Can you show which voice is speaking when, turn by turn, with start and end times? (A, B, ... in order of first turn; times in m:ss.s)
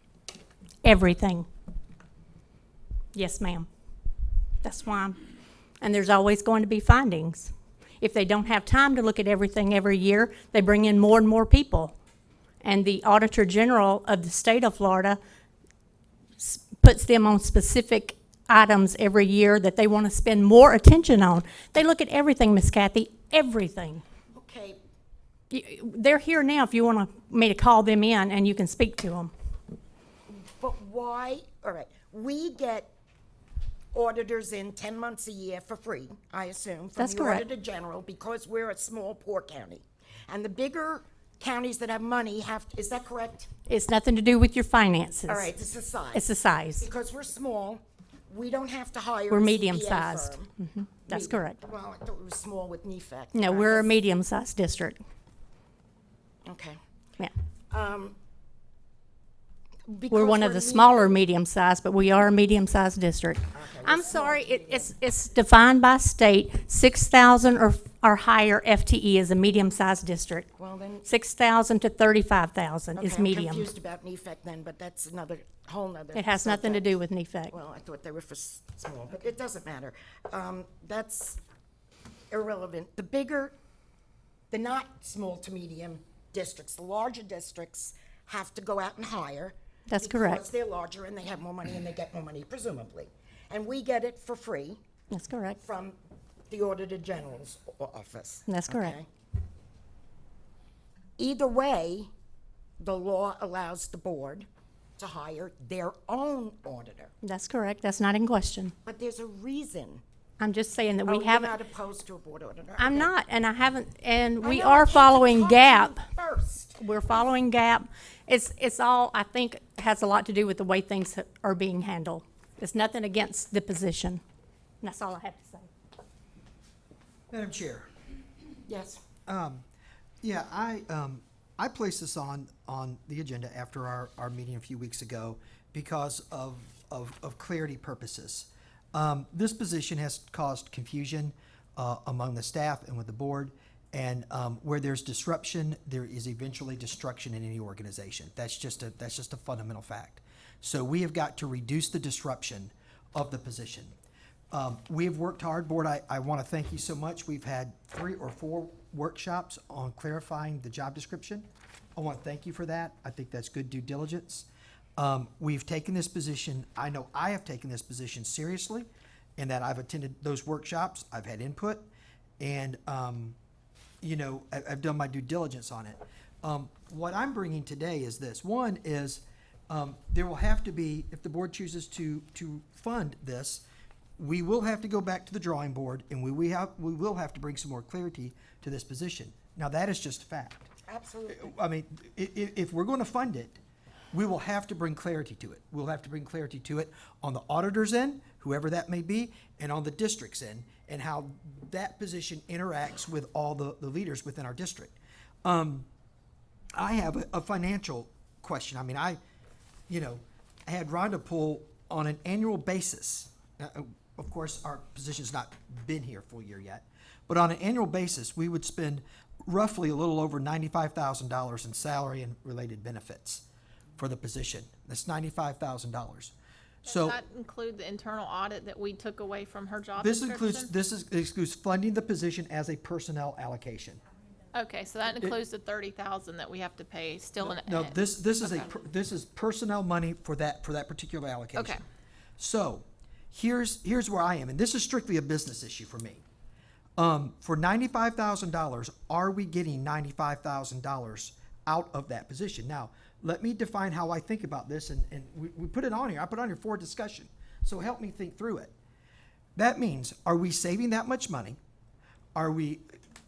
0:00.8-0:01.5 A
0:03.1-0:03.7 A
0:04.6-0:05.2 A
0:05.8-0:12.0 A
0:12.6-0:15.2 A
0:16.4-0:24.0 A
0:24.3-0:24.8 B
0:25.5-0:29.3 A
0:30.3-0:32.9 B
0:33.9-0:43.5 B
0:37.0-0:37.4 A
0:43.7-0:45.5 A
0:45.3-0:46.2 B
0:46.1-0:46.9 A
0:46.8-0:50.5 B
0:49.3-0:51.6 A
0:51.1-0:54.0 B
0:53.3-0:55.0 A
0:56.4-0:56.8 B
0:57.7-0:58.2 B
0:59.9-1:01.2 B
1:00.1-1:10.5 A
1:03.5-1:04.9 B
1:10.6-1:11.1 B
1:11.0-1:13.7 A
1:13.0-1:17.0 B
1:16.1-1:17.5 A
1:17.5-1:21.4 B
1:22.3-1:23.6 B
1:24.5-1:34.8 B
1:29.9-1:30.4 A
1:35.1-1:35.6 A
1:35.6-1:36.0 B
1:36.5-1:39.1 B
1:38.5-1:39.0 A
1:41.2-1:42.1 B
1:42.8-1:44.5 B
1:45.0-1:47.1 B
1:47.2-1:48.7 A
1:48.8-1:50.0 B
1:50.4-1:51.5 A
1:51.1-1:53.1 B
1:52.8-1:56.0 A
1:54.4-1:56.8 B
1:56.8-2:04.2 A
2:04.8-2:05.7 A
2:07.3-2:07.9 C
2:08.7-2:09.0 B
2:09.3-2:09.6 C
2:10.2-2:33.9 C
2:34.5-2:51.9 C
2:52.4-2:53.4 C
2:54.0-3:03.6 C
3:04.2-3:10.7 C
3:10.9-3:11.5 B
3:11.3-3:13.6 C
3:14.1-3:25.9 C
3:26.8-3:29.2 C
3:29.9-3:43.4 C
3:44.0-3:46.3 C
3:46.8-3:47.2 C
3:46.9-3:50.7 D
3:50.0-3:54.0 C
3:54.5-3:58.0 D
3:57.4-4:01.8 C
4:01.6-4:01.8 D
4:02.4-4:06.2 C
4:07.0-4:18.7 C
4:19.6-4:21.6 C
4:22.4-4:22.8 C